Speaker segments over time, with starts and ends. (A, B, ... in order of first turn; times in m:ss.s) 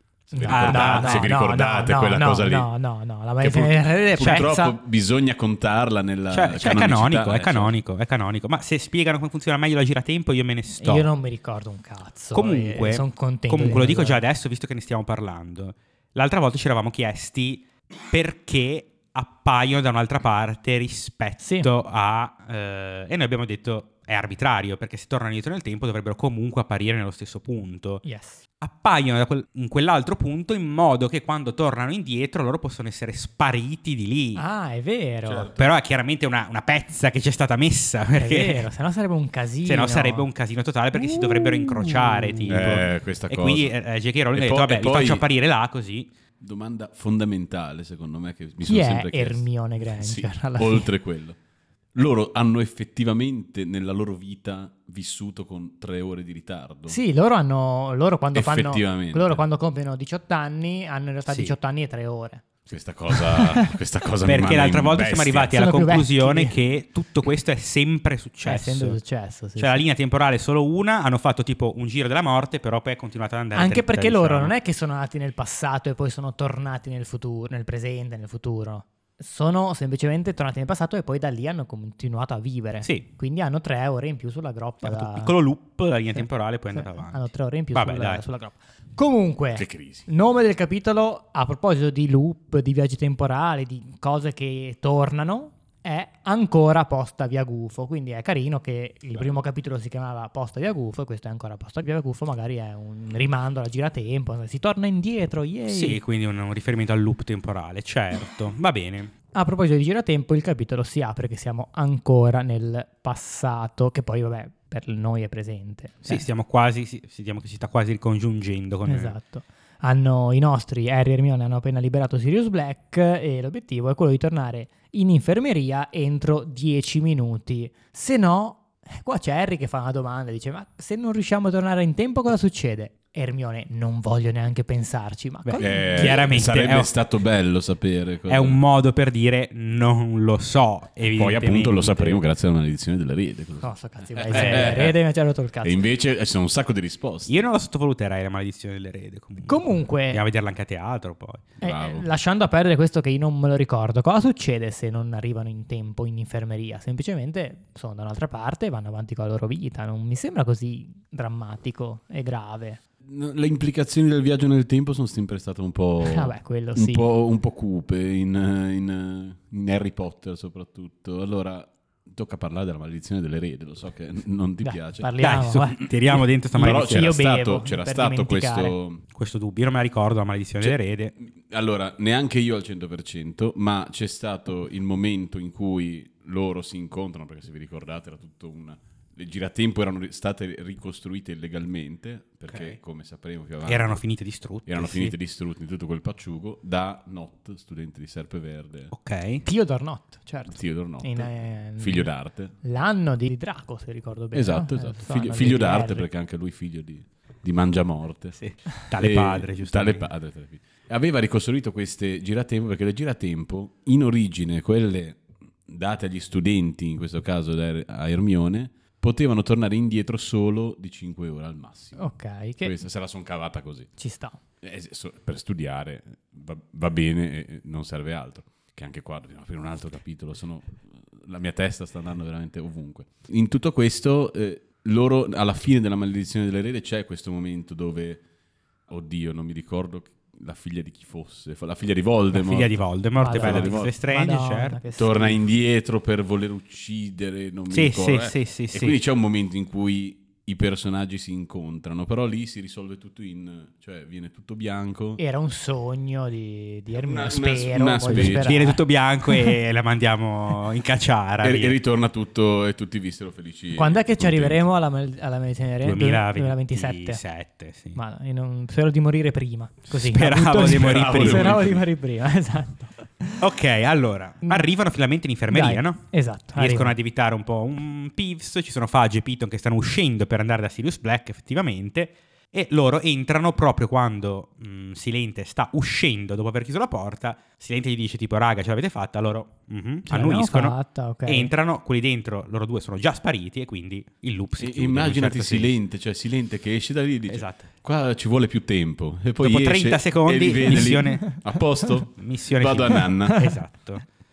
0:00.3-0:02.7 A
0:00.3-0:04.8 B
0:00.5-0:01.3 C
0:03.4-0:07.8 A
0:04.2-0:04.5 C
0:06.3-0:11.1 C
0:10.8-0:14.2 B
0:12.3-0:28.0 C
0:21.4-0:21.7 B
0:28.0-0:28.4 B
0:28.6-0:34.4 C
0:34.4-0:35.5 B
0:35.2-0:35.7 A
0:35.6-0:38.6 C
0:38.2-0:40.3 B
0:39.7-0:46.1 C
0:41.0-0:42.6 B
0:42.5-0:43.8 A
0:44.3-0:45.3 A
0:46.4-0:51.4 A
0:48.6-0:50.9 B
0:51.9-0:57.0 A
0:56.9-1:02.5 B
0:58.3-0:59.4 A
1:01.3-1:01.5 C
1:02.7-1:05.6 A
1:03.2-1:03.7 B
1:04.2-1:09.0 C
1:05.5-1:06.6 B
1:08.4-1:09.8 B
1:09.6-1:14.5 C
1:13.6-1:25.4 B
1:24.8-1:28.2 C
1:26.2-1:46.0 B
1:29.6-1:30.1 A
1:45.7-1:49.1 C
1:49.3-1:56.3 B
1:56.1-1:59.2 C
1:58.9-2:16.2 B
2:15.4-2:16.9 C
2:15.6-2:18.6 A
2:18.3-2:22.2 C
2:21.1-2:25.0 A
2:23.6-2:25.8 B
2:24.3-2:24.7 C
2:25.6-2:27.3 A
2:27.3-2:31.5 C
2:29.5-2:30.2 B
2:31.6-2:32.1 A
2:31.6-2:42.8 B
2:43.0-2:55.1 A
2:46.0-2:47.0 B
2:54.6-2:55.8 B
2:55.2-2:57.1 C
2:56.1-2:59.0 A
2:56.6-2:58.8 B
2:59.1-3:01.1 C
3:00.6-3:14.0 A
3:12.5-3:12.8 C
3:13.6-3:15.1 C
3:14.7-3:18.9 A
3:18.9-3:19.4 C
3:19.4-3:26.1 B
3:20.5-3:22.6 A
3:24.3-3:28.4 A
3:28.4-3:30.1 C
3:28.9-3:42.0 A
3:42.0-3:42.8 B
3:42.6-3:43.9 A
3:44.0-3:44.4 B
3:44.6-3:58.2 A
3:58.9-4:02.7 A
4:02.3-4:04.8 C
4:03.2-4:05.4 B
4:03.3-4:04.0 A
4:05.0-4:15.2 A
4:07.7-4:09.0 C
4:15.2-4:19.6 B
4:16.9-4:18.6 A
4:18.1-4:21.8 C
4:21.4-4:24.6 A
4:23.8-4:27.2 B
4:25.8-4:28.0 C
4:28.0-4:33.4 B
4:29.9-4:31.7 C
4:30.7-4:31.8 A
4:33.4-4:55.8 C
4:35.5-4:37.0 B
4:50.1-4:51.5 B
4:54.6-5:03.4 A
4:57.3-4:57.7 C
4:59.4-5:01.5 C
5:02.2-5:04.0 C
5:03.3-5:03.6 B